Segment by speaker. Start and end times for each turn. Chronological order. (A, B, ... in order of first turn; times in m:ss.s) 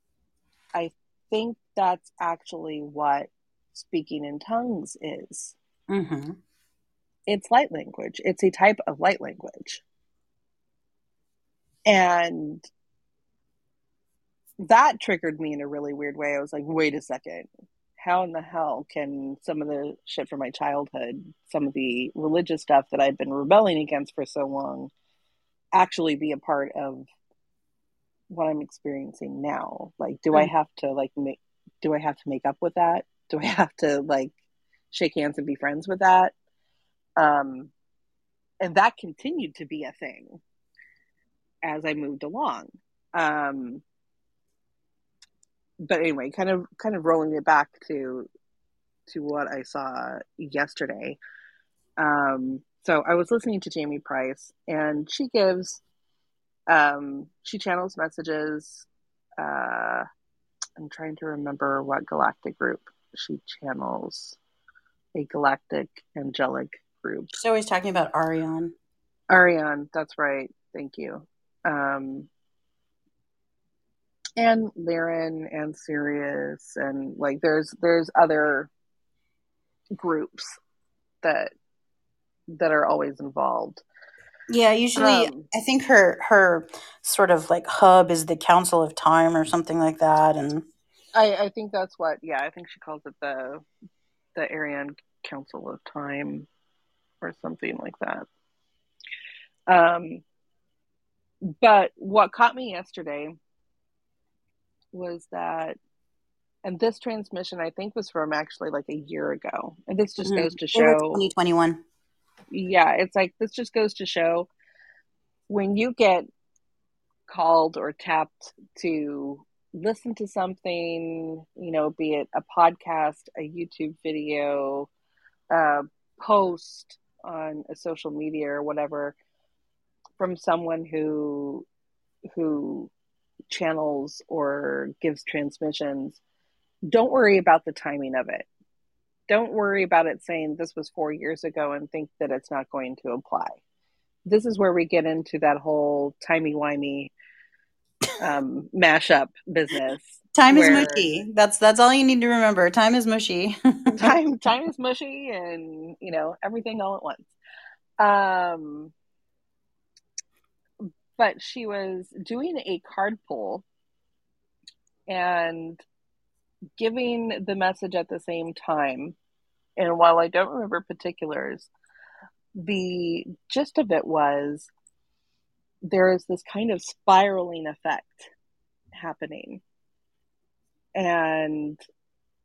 0:00.7-0:05.6 A
0:05.9-0:06.4 B
0:07.3-0:09.8 A
0:11.9-0:12.7 A
0:14.6-0:17.5 A
0:18.0-0:24.9 A
0:25.7-0:27.1 A
0:28.3-0:34.3 A
0:34.9-0:36.3 A
0:37.2-0:37.7 A
0:38.6-0:40.4 A
0:41.6-0:43.8 A
0:45.8-0:48.3 A
0:49.1-0:51.2 A
0:52.0-0:55.8 A
0:56.7-0:58.9 A
0:59.4-1:00.0 A
1:00.8-1:04.4 A
1:05.2-1:07.4 A
1:07.3-1:08.7 B
1:09.3-1:12.3 A
1:14.4-1:18.7 A
1:20.0-1:20.6 A
1:21.2-1:21.5 A
1:22.5-1:23.8 A
1:24.5-1:30.6 B
1:25.0-1:25.5 A
1:31.2-1:33.6 A
1:34.4-1:36.5 A
1:37.2-1:38.3 A
1:39.7-1:40.2 A
1:41.4-1:43.4 A
1:44.9-1:45.8 A
1:46.6-1:51.2 A
1:50.2-1:51.8 B
1:52.5-1:54.5 A
1:55.5-1:56.3 A
1:57.3-2:04.9 A
2:05.5-2:09.2 A
2:10.2-2:11.7 A
2:12.4-2:12.9 A
2:13.5-2:16.2 A
2:16.9-2:18.5 A
2:19.3-2:23.6 A
2:24.3-2:27.1 A
2:28.2-2:31.1 A
2:30.4-2:34.0 B
2:33.9-2:37.3 A
2:38.0-2:38.9 A
2:40.8-2:43.6 A
2:45.1-2:45.8 A
2:46.8-2:49.2 A
2:49.8-2:51.7 A
2:52.6-2:54.7 A
2:55.8-2:58.3 A
2:58.9-2:59.6 A
3:01.0-3:01.8 A